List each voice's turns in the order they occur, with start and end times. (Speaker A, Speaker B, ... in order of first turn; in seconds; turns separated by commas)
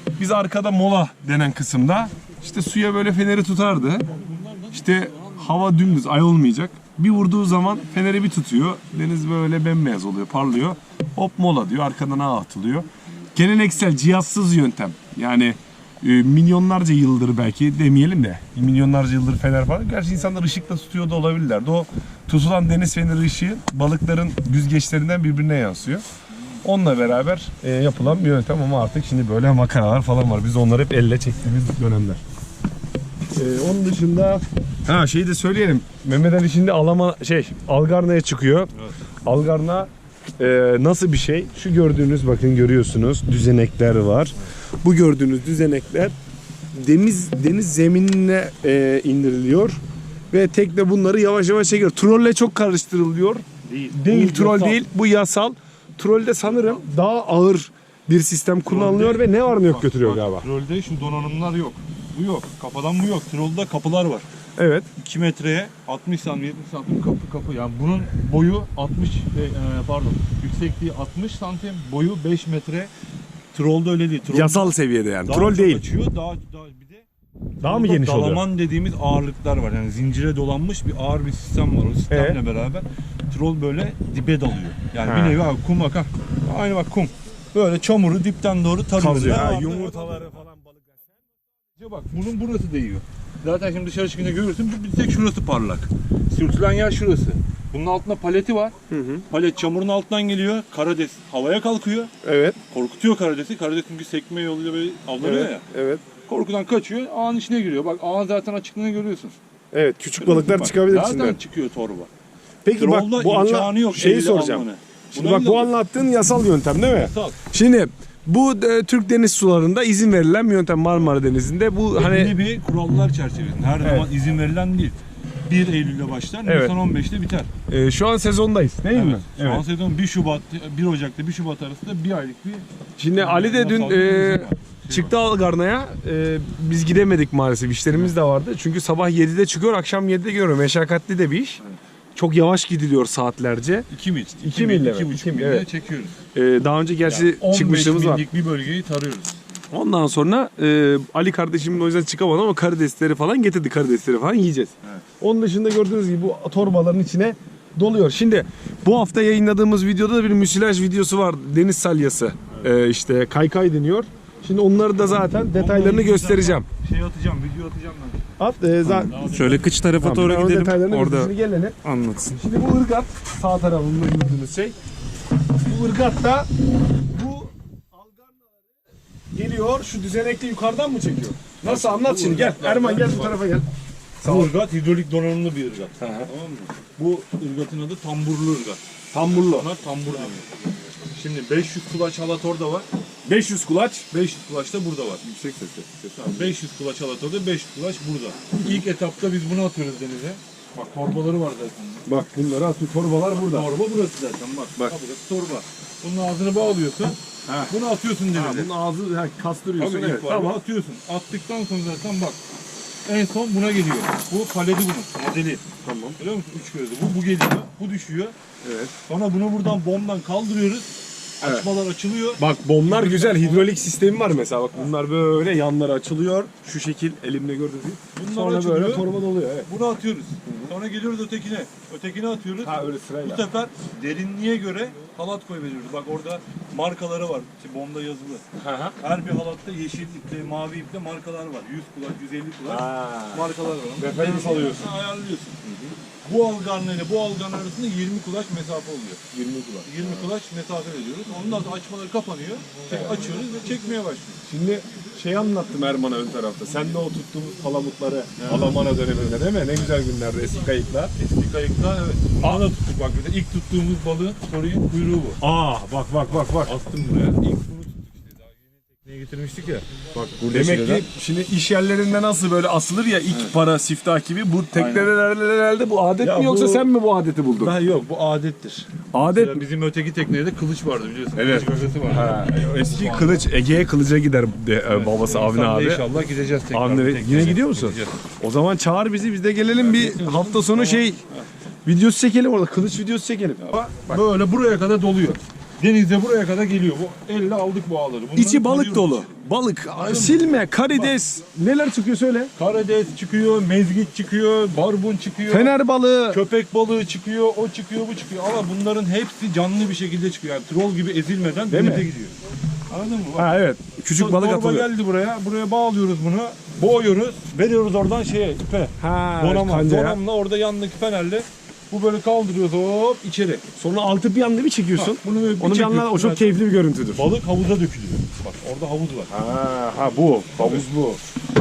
Speaker A: 0.2-4.1, Speaker B: 4.1-5.8, Speaker A: 4.7-26.0, Speaker A: 26.6-32.2, Speaker A: 33.3-38.7, Speaker A: 39.2-46.1, Speaker A: 46.7-60.5, Speaker B: 53.6-54.8, Speaker B: 56.5-56.8, Speaker B: 58.6-64.3, Speaker A: 64.6-64.9, Speaker B: 65.0-72.9, Speaker B: 73.5-74.7, Speaker A: 74.3-75.9, Speaker B: 75.2-77.1, Speaker A: 77.6-78.5, Speaker B: 77.6-90.3, Speaker A: 82.1-82.4, Speaker A: 85.0-85.5, Speaker A: 89.0-91.2, Speaker B: 91.8-98.8, Speaker A: 98.9-99.2, Speaker B: 99.3-102.1, Speaker A: 102.2-102.6, Speaker B: 102.7-105.7, Speaker A: 105.2-106.0, Speaker B: 106.3-109.4, Speaker A: 109.7-111.4, Speaker B: 110.2-112.1, Speaker A: 112.6-122.3, Speaker B: 112.8-115.7, Speaker B: 117.0-117.4, Speaker B: 121.9-127.5, Speaker A: 123.8-124.1, Speaker A: 126.5-126.8, Speaker A: 127.7-129.7, Speaker B: 128.9-135.1, Speaker A: 133.0-141.6, Speaker A: 142.2-143.9, Speaker B: 143.9-146.2, Speaker A: 144.4-145.7, Speaker A: 146.3-148.2, Speaker B: 147.0-149.4, Speaker A: 149.7-166.7, Speaker B: 165.3-168.3, Speaker A: 168.4-171.8, Speaker B: 168.9-169.8, Speaker C: 169.2-172.4, Speaker A: 172.3-174.8, Speaker A: 175.6-176.5, Speaker A: 177.1-178.6, Speaker A: 179.3-183.7, Speaker B: 181.6-183.4, Speaker A: 184.2-184.5, Speaker B: 184.2-190.5, Speaker A: 186.0-186.3, Speaker A: 189.1-189.7, Speaker B: 191.1-192.9, Speaker A: 193.2-194.1, Speaker B: 194.1-195.2, Speaker A: 195.2-196.5, Speaker B: 196.2-202.1, Speaker A: 202.1-203.7, Speaker B: 203.3-208.7, Speaker A: 207.5-207.7, Speaker A: 208.3-210.6, Speaker B: 209.8-212.4, Speaker B: 213.1-215.7, Speaker A: 215.8-216.2, Speaker B: 216.2-218.3, Speaker A: 218.6-218.9, Speaker B: 219.1-223.8, Speaker A: 221.4-221.7, Speaker A: 222.4-229.7, Speaker B: 228.2-229.1, Speaker B: 229.7-238.4, Speaker A: 230.4-230.7, Speaker A: 232.6-233.5, Speaker A: 238.6-239.0, Speaker B: 239.0-245.6, Speaker A: 242.7-244.9, Speaker A: 245.6-245.9, Speaker B: 246.2-249.2, Speaker A: 249.3-250.3, Speaker B: 249.8-254.4, Speaker A: 252.9-253.3, Speaker A: 254.4-261.1, Speaker B: 258.4-258.8, Speaker B: 261.2-265.4, Speaker A: 265.4-266.8, Speaker B: 266.6-271.1, Speaker A: 270.4-277.8, Speaker B: 274.7-275.1, Speaker B: 276.2-276.9, Speaker B: 277.6-283.6, Speaker A: 279.1-279.6, Speaker A: 281.4-286.1, Speaker B: 284.9-288.2, Speaker A: 286.7-291.2, Speaker B: 289.8-291.5, Speaker A: 291.9-294.2, Speaker B: 293.6-299.3, Speaker A: 298.4-302.5, Speaker B: 300.0-301.1, Speaker B: 302.6-305.7, Speaker A: 305.5-306.4, Speaker B: 306.3-312.3, Speaker A: 311.7-312.1, Speaker B: 312.9-313.5, Speaker A: 313.4-314.9, Speaker B: 314.1-323.6, Speaker A: 319.0-320.2, Speaker A: 323.8-327.3, Speaker B: 324.9-326.6, Speaker B: 327.1-329.4, Speaker A: 329.3-331.2, Speaker B: 330.6-330.8